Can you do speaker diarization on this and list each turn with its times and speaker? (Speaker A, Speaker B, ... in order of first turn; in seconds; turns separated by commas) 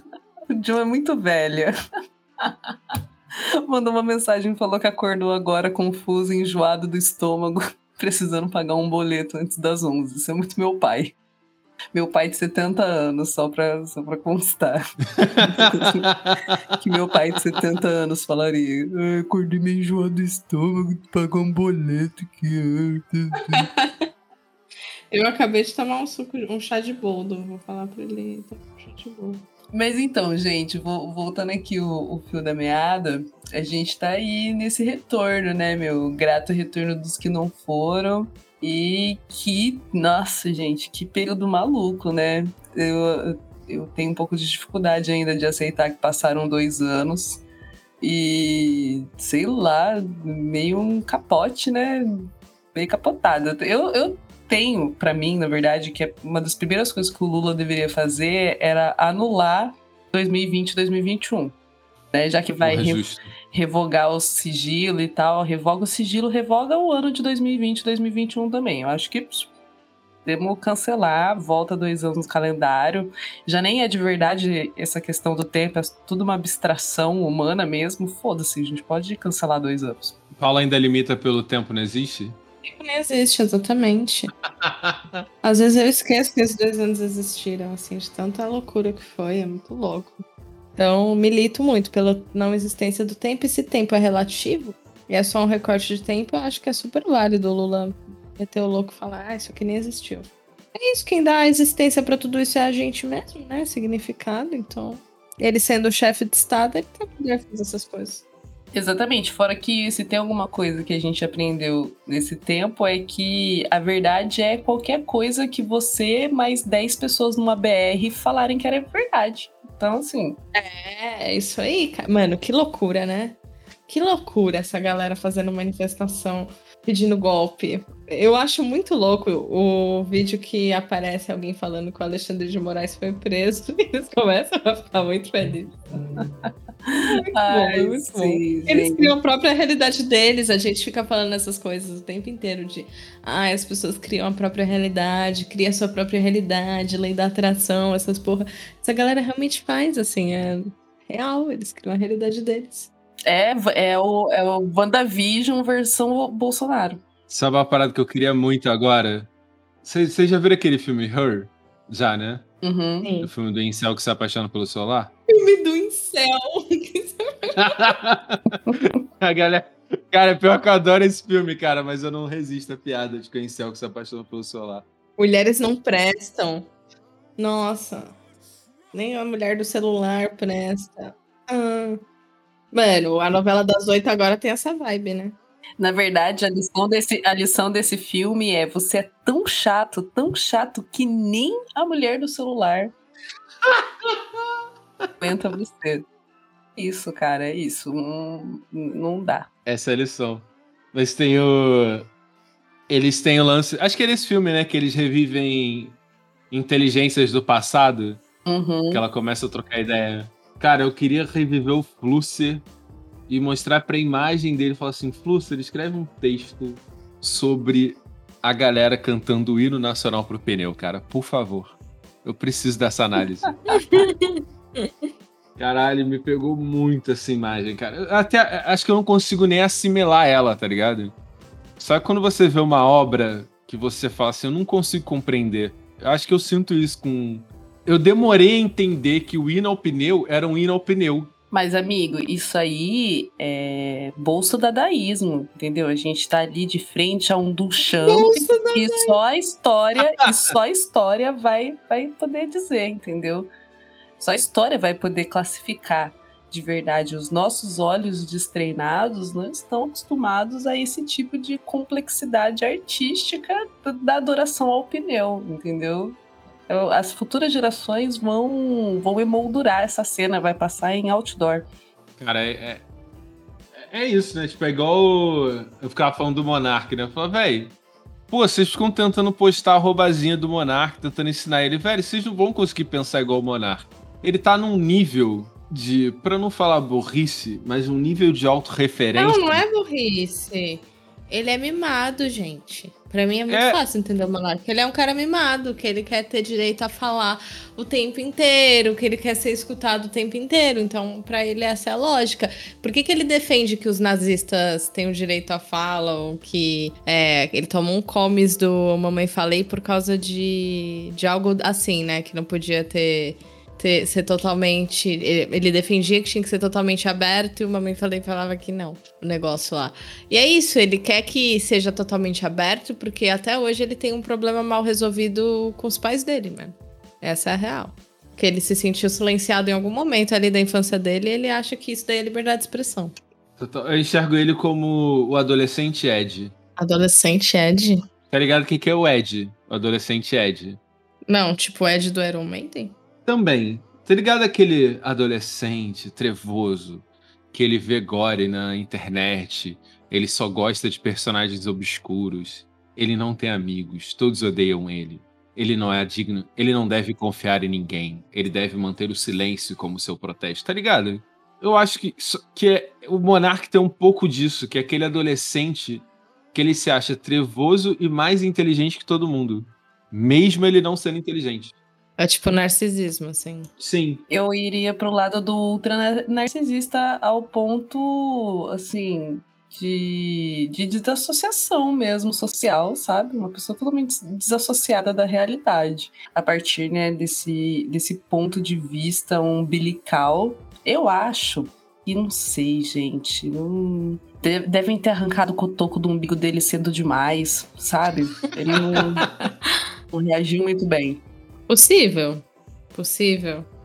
Speaker A: 0.5-1.7, Speaker A: 2.4-3.0, Speaker A: 3.7-11.2, Speaker A: 11.9-16.1, Speaker B: 15.2-16.5, Speaker A: 16.8-23.7, Speaker C: 23.5-24.0, Speaker C: 25.1-29.4, Speaker A: 29.7-47.4, Speaker A: 48.0-52.1, Speaker A: 52.7-61.5, Speaker A: 62.1-69.5, Speaker B: 62.6-63.3, Speaker A: 70.2-80.2, Speaker B: 80.4-82.4, Speaker C: 82.7-84.3, Speaker B: 84.6-85.2, Speaker C: 85.4-90.2, Speaker C: 90.8-108.2, Speaker A: 108.7-120.4, Speaker C: 120.5-135.9, Speaker A: 136.9-139.2, Speaker C: 137.1-152.9, Speaker A: 153.3-157.0, Speaker B: 157.3-159.3, Speaker B: 159.8-162.4, Speaker A: 162.6-163.1, Speaker C: 163.0-163.3, Speaker B: 163.2-165.1, Speaker C: 165.3-167.8, Speaker B: 167.6-174.8, Speaker C: 175.2-176.7, Speaker C: 177.4-178.1, Speaker C: 178.9-182.0, Speaker C: 182.7-185.4, Speaker A: 185.8-192.9, Speaker B: 193.6-194.5, Speaker A: 195.2-196.1, Speaker A: 196.8-199.5, Speaker B: 199.7-202.1, Speaker B: 202.9-206.0, Speaker B: 206.5-208.2, Speaker A: 208.5-209.0, Speaker B: 208.9-212.7, Speaker B: 213.3-223.6, Speaker C: 223.7-225.1, Speaker B: 225.6-231.1, Speaker B: 231.8-241.3, Speaker A: 241.5-253.5, Speaker C: 247.9-249.2, Speaker A: 254.2-271.7, Speaker B: 272.2-272.9, Speaker B: 273.8-277.8, Speaker B: 278.3-289.6, Speaker C: 289.2-333.1, Speaker B: 293.5-293.8, Speaker B: 333.6-336.5, Speaker C: 336.8-338.0, Speaker B: 338.3-340.8, Speaker C: 341.3-342.9, Speaker B: 343.3-371.8, Speaker C: 372.2-373.7, Speaker B: 373.8-374.2, Speaker A: 374.3-399.3, Speaker A: 400.1-401.2, Speaker C: 401.7-403.7